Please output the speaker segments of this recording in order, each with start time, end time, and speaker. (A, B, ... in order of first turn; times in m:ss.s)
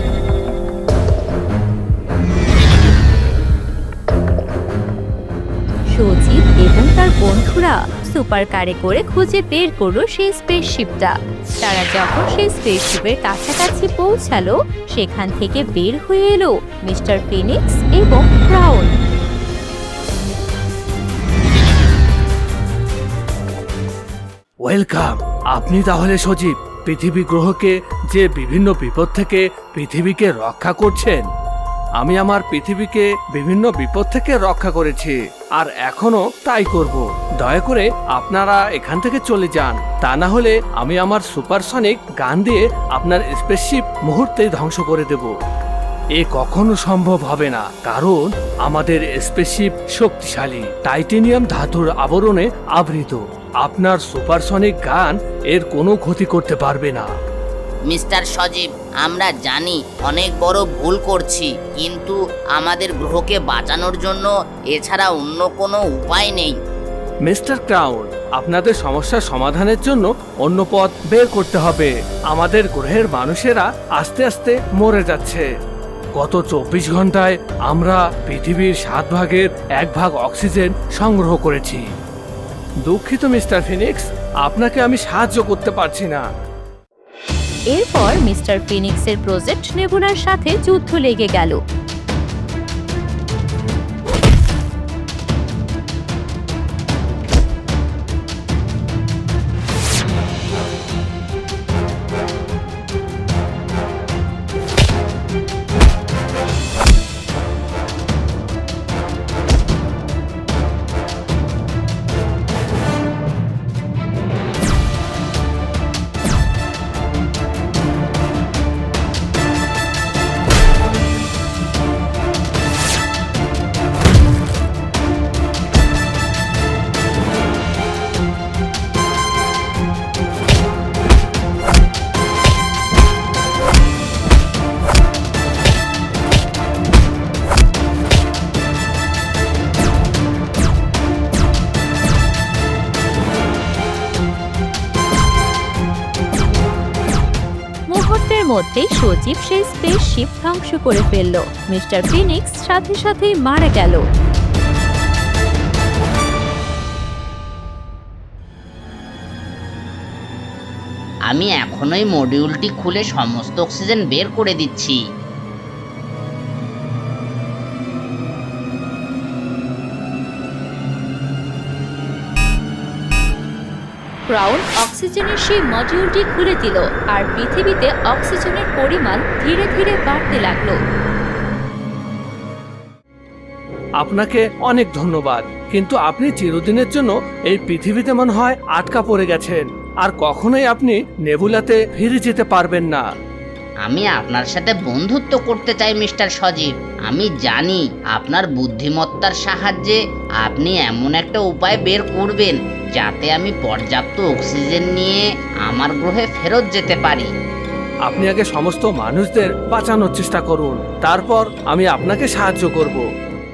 0:05.9-0:18.9 A
0:24.6-0:31.3 B
0:32.0-0:45.4 B
0:46.2-0:57.1 B
0:57.9-1:06.6 C
1:07.2-1:15.5 B
1:16.2-1:21.8 B
1:22.8-1:26.3 B
1:27.7-1:31.6 A
2:27.9-2:34.0 A
2:41.3-2:45.0 C
2:54.3-3:00.8 A
3:04.0-3:13.0 B
3:13.8-3:27.3 C
3:28.1-3:33.0 B